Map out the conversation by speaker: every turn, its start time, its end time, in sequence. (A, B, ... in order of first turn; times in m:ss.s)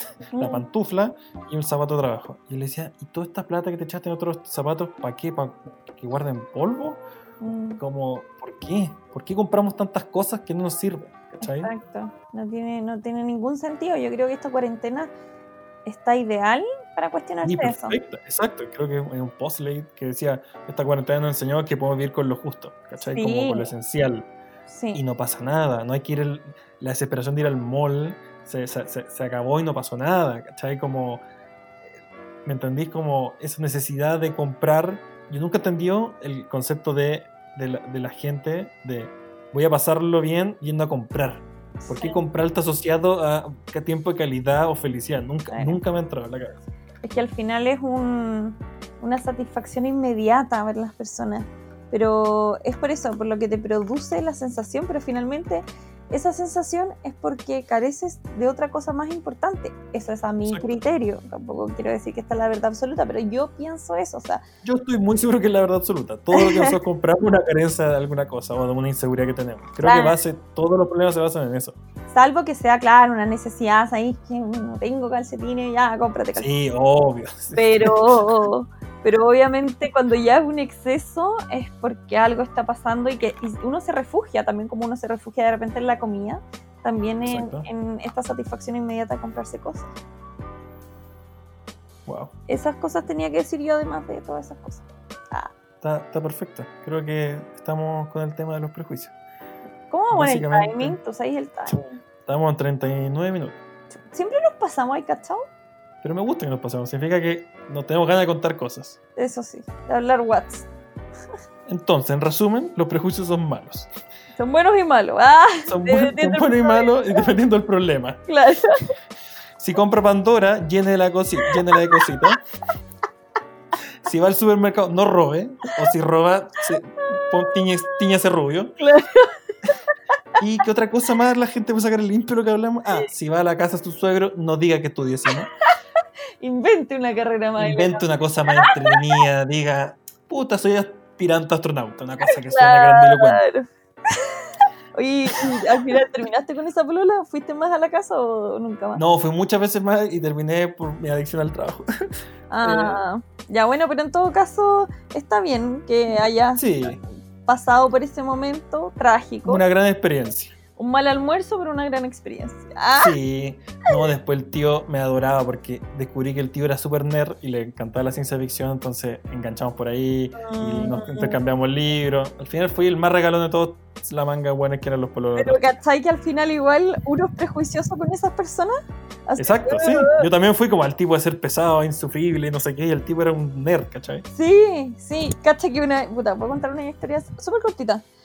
0:00.3-0:00.6 A
0:00.4-0:07.0 B
0:07.4-0:07.8 A
0:07.8-0:11.7 B
0:11.4-0:15.1 A
0:15.9-0:18.0 A
0:17.4-0:24.3 B
0:23.0-0:23.7 A
0:24.7-0:25.0 A
0:24.9-0:31.2 B
0:32.4-0:46.6 B
0:41.8-0:42.2 A
0:45.5-0:45.8 A
0:47.0-1:04.4 A
1:04.6-1:11.8 B
1:06.3-1:06.7 A
1:09.8-1:10.2 A
1:12.1-1:16.5 A
1:16.4-1:18.2 B
1:17.6-1:29.9 A
1:27.2-1:27.7 B
1:32.1-1:32.3 B
1:32.5-1:35.5 A
1:35.8-1:39.1 B
1:39.9-1:42.0 A
1:40.1-1:41.0 B
1:41.7-1:43.6 B
1:44.0-1:45.4 A
1:46.0-1:49.0 B
1:49.2-1:50.7 A
1:51.7-1:53.9 B
1:54.4-1:56.9 A
1:55.7-1:58.2 B
1:58.3-1:58.9 A
1:59.6-2:02.4 B
2:01.4-2:02.3 A
2:04.0-2:08.7 B
2:07.1-2:07.6 A
2:08.8-2:09.8 A
2:10.4-2:15.5 B
2:16.4-2:19.2 A
2:17.6-2:23.4 B
2:22.2-2:29.0 A
2:29.0-2:31.9 B
2:32.5-2:37.0 A
2:32.6-2:33.0 B
2:36.6-2:37.0 B
2:37.4-2:39.6 A
2:39.4-2:40.6 B
2:40.8-2:43.1 A
2:43.0-2:55.6 B
2:50.4-2:51.4 A
2:55.4-2:58.7 A
2:59.3-3:00.2 A
2:59.4-3:04.2 B
3:04.3-3:08.0 A